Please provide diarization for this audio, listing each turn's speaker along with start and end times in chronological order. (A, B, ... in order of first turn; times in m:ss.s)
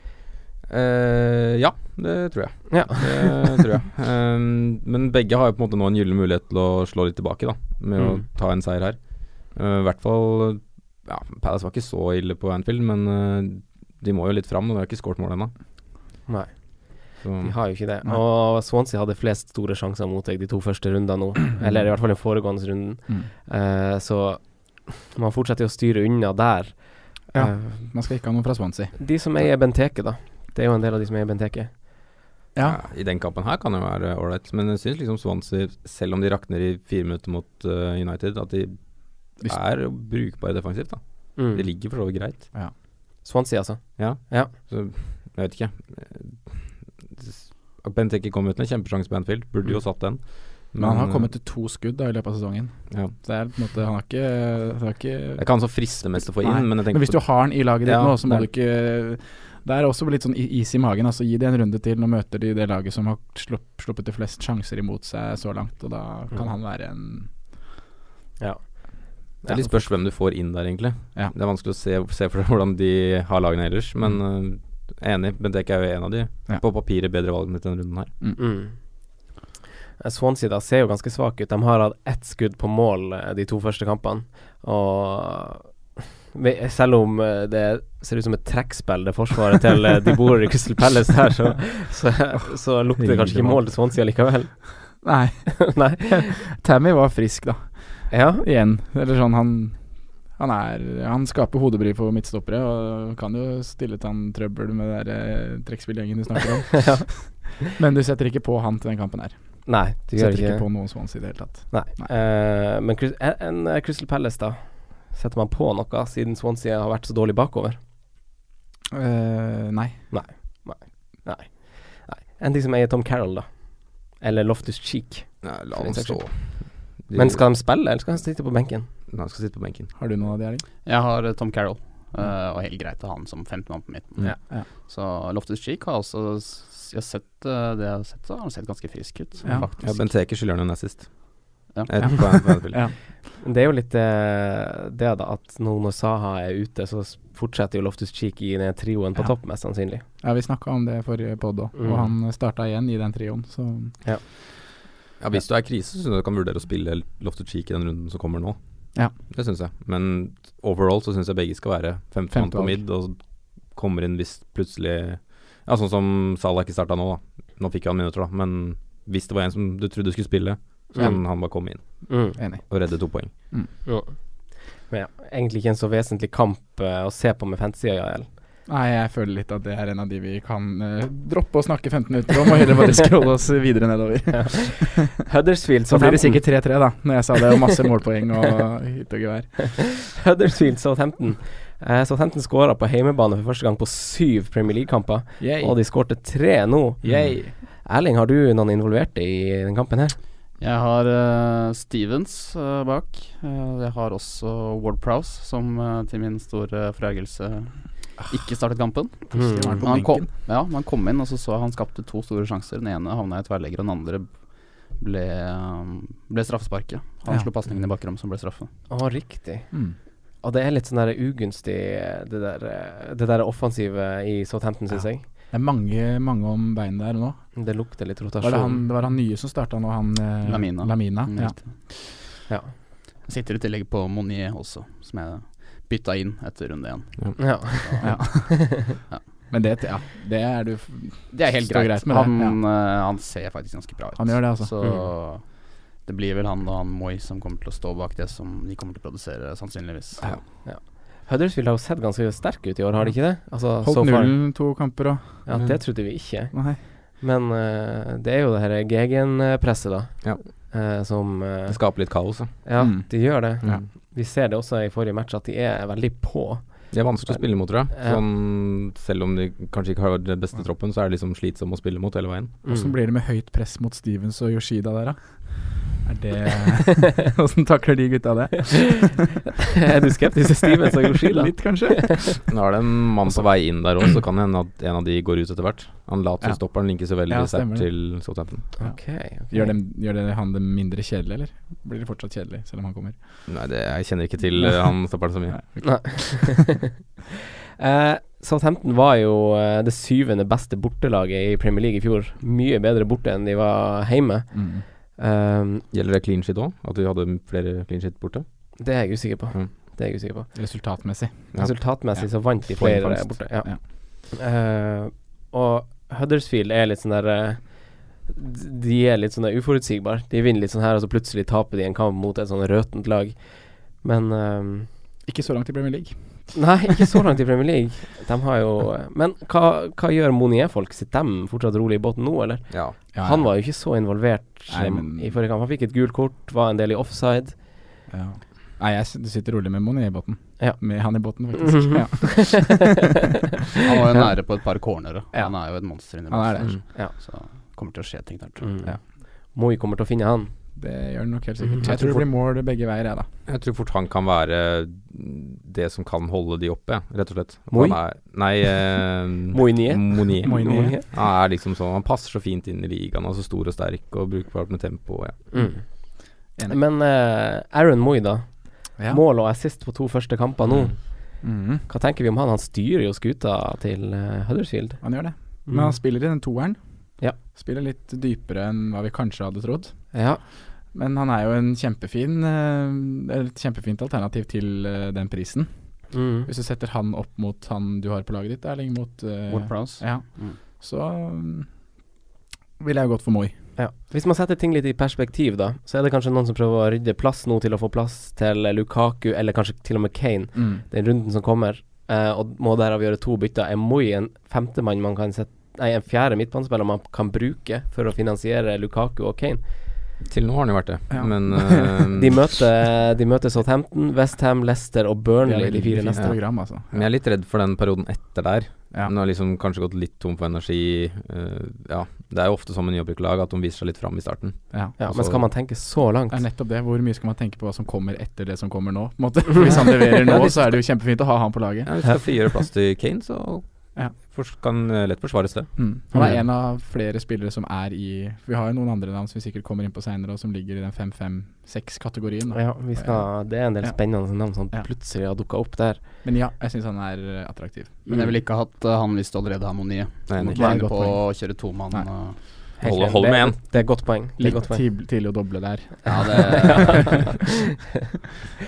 0:00.7-0:15.5 A
0:02.7-0:03.3 B
0:08.0-0:08.2 B
0:16.2-0:27.9 B
0:17.2-0:17.7 A
0:27.3-0:29.0 C
0:29.0-0:31.8 B
0:32.5-0:32.8 C
0:32.6-0:42.5 A
0:41.4-0:41.6 B
0:43.2-0:44.5 B
0:44.0-0:51.3 A
0:50.8-1:07.3 C
0:55.4-0:58.5 A
1:08.4-1:09.6 B
1:09.4-1:18.1 A
1:18.4-1:18.8 B
1:20.0-1:25.8 B
1:26.3-1:35.0 B
1:33.0-1:33.6 C
1:35.0-1:39.8 C
1:35.6-1:36.3 B
1:38.1-1:38.4 B
1:40.4-1:52.1 C
1:46.7-1:47.7 B
1:49.6-1:50.9 B
1:51.7-1:57.8 B
1:58.9-2:00.1 C
2:00.1-2:08.9 B
2:05.4-2:07.4 A
2:09.1-2:09.9 A
2:10.0-2:10.6 C
2:10.8-2:20.1 D
2:19.8-2:22.8 A
2:21.7-2:22.0 D
2:22.0-2:23.0 C
2:23.4-2:30.0 B
2:30.2-2:34.0 C
2:31.8-2:32.1 B
2:35.2-2:38.6 A
2:39.2-2:53.3 A
2:42.3-2:42.8 C
2:50.9-2:51.5 B
2:52.1-2:52.4 B
2:52.4-2:52.8 C
2:53.8-2:58.3 B
2:58.7-3:05.1 C
3:04.3-3:06.7 B
3:05.9-3:09.8 C
3:09.8-3:20.2 B
3:15.4-3:15.8 C
3:17.0-3:17.5 C
3:17.1-3:17.3 A
3:20.6-3:38.7 D
3:29.3-3:29.8 B
3:29.3-3:30.3 C
3:38.9-3:39.8 B
3:39.7-3:40.0 C
3:40.4-3:45.2 B
3:45.2-3:47.7 C
3:47.5-3:48.8 B
3:48.4-3:51.6 C
3:50.4-3:51.7 D
3:52.5-3:52.7 B
3:53.2-3:58.5 D
3:57.4-3:58.9 B
3:58.0-4:02.6 C
4:01.3-4:10.4 D
4:04.2-4:04.7 C
4:10.6-4:14.4 B
4:13.8-4:15.9 C
4:15.5-4:28.2 B
4:16.5-4:16.8 C
4:21.7-4:22.6 A
4:22.8-4:23.8 C
4:26.9-4:32.6 A
4:32.6-4:32.9 B
4:32.6-4:39.2 C
4:39.8-4:42.1 B
4:41.2-4:42.5 C
4:42.5-4:48.7 A
4:46.4-4:53.4 C
4:48.8-4:49.7 B
4:53.5-4:55.8 A
4:54.6-4:56.6 C
4:55.8-4:56.9 B
4:57.8-5:05.8 B
5:04.5-5:04.8 C
5:05.9-5:08.8 A
5:08.8-5:10.5 B
5:10.5-5:12.3 C
5:11.5-5:12.0 A
5:11.6-5:24.9 B
5:12.8-5:13.4 A
5:25.2-5:26.7 C
5:26.5-5:37.6 B
5:32.7-5:33.0 A
5:33.1-5:33.5 C
5:34.7-5:35.4 C
5:38.1-5:43.0 C
5:41.5-5:42.8 B
5:43.8-5:48.7 D
5:46.3-5:46.8 C
5:48.6-5:50.5 B
5:50.8-5:53.3 C
5:51.7-5:52.2 B
5:53.5-6:05.6 A
5:57.7-5:58.0 B
5:59.5-6:01.0 B
6:00.4-6:01.0 C
6:05.5-6:15.1 B
6:11.4-6:11.9 C
6:15.0-6:20.2 C
6:15.6-6:16.0 B
6:20.1-6:20.4 B
6:20.9-6:31.7 C
6:26.1-6:26.5 B
6:29.5-6:30.6 D
6:32.8-6:33.5 C
6:33.8-6:49.6 B
6:40.5-6:40.8 C
6:50.2-6:52.6 A
6:51.1-6:52.0 C
6:52.1-6:56.3 B
6:55.4-6:57.0 C
6:56.2-7:05.4 A
7:05.0-7:06.4 B
7:06.3-7:11.9 C
7:11.8-7:16.4 A
7:15.8-7:24.0 C
7:22.5-7:26.0 B
7:26.2-7:28.1 C
7:28.1-7:32.4 D
7:30.3-7:30.8 A
7:30.4-7:32.1 C
7:32.8-7:34.8 B
7:32.8-7:33.6 A
7:33.8-7:36.8 C
7:36.0-7:37.3 D
7:36.4-7:37.3 B